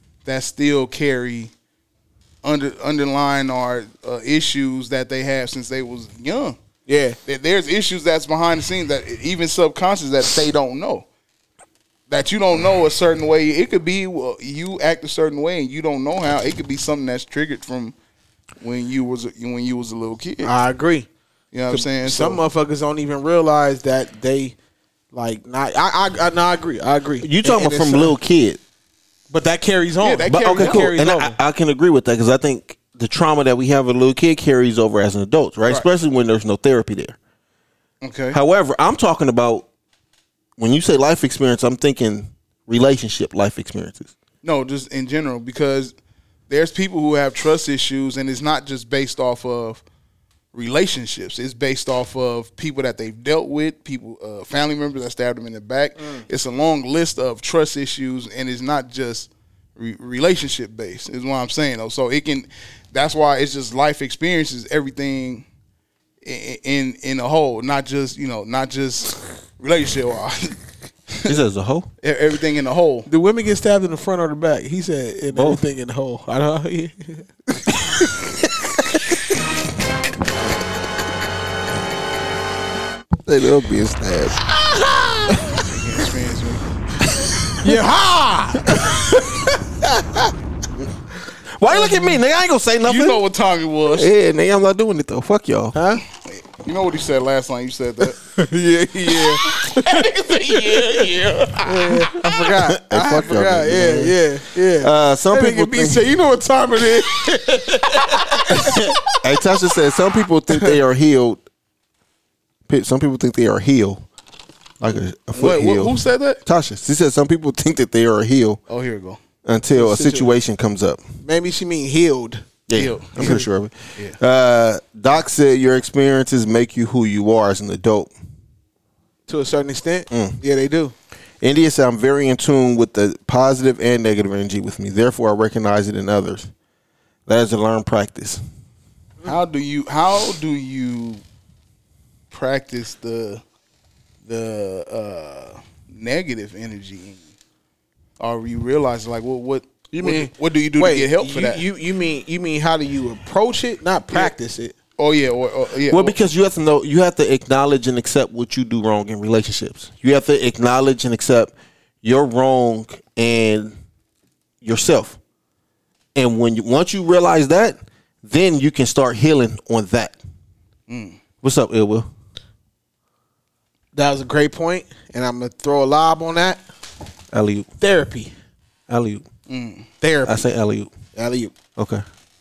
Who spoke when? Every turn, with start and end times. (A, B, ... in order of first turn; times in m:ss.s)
0:00.3-0:01.5 A
0:02.4-0:06.6 A
0:06.9-0:07.2 B
0:07.3-0:11.1 A
0:12.1-0:17.9 A
0:18.6-0:20.5 A
0:20.4-0:21.1 B
0:21.5-0:22.4 A
0:21.7-0:24.6 B
0:25.1-0:28.2 B
0:27.2-0:28.6 C
0:29.3-0:31.4 B
0:30.0-0:30.9 A
0:30.3-0:37.2 C
0:38.0-0:38.4 A
0:38.3-0:39.7 C
0:40.6-0:44.1 C
0:44.4-0:45.9 A
0:46.5-0:49.8 A
0:50.5-1:05.4 A
0:56.0-0:56.2 B
1:06.2-1:10.6 A
1:11.3-1:11.9 C
1:12.0-1:13.1 A
1:13.1-1:18.1 B
1:15.3-1:15.6 C
1:23.3-1:24.4 C
1:25.5-1:26.8 A
1:27.6-1:28.9 B
1:31.5-1:33.2 C
1:31.8-1:32.2 A
1:32.8-1:34.1 A
1:33.9-1:35.8 C
1:35.7-1:36.0 B
1:36.2-1:38.2 A
1:38.4-1:49.0 B
1:39.5-1:41.6 A
1:42.6-1:44.2 C
1:44.8-1:46.0 C
1:48.6-1:51.4 C
1:52.7-1:54.0 C
1:54.8-1:58.6 C
1:55.4-1:56.4 A
1:58.7-1:59.2 A
1:59.4-2:01.0 C
1:59.7-2:00.4 B
2:01.2-2:02.5 B
2:02.7-2:08.1 C
2:02.7-2:04.2 A
2:09.3-2:10.9 B
2:10.1-2:10.4 C
2:11.4-2:16.5 C
2:17.3-2:18.4 C
2:19.2-2:21.2 A
2:22.3-2:23.4 A
2:24.2-2:27.2 A
2:28.2-2:31.6 A
2:29.9-2:34.7 B
2:35.0-2:36.2 A
2:35.9-2:43.8 C
2:44.6-2:45.2 C
2:46.2-2:50.2 C
2:50.9-2:51.2 A
2:51.4-2:52.1 C
2:53.9-2:56.6 B
2:57.3-2:57.7 C
2:57.8-2:58.3 B
2:58.9-2:59.2 C
2:59.5-2:59.9 A
3:00.0-3:00.4 B
3:00.2-3:00.9 C
3:01.2-3:01.5 B
3:01.8-3:02.0 C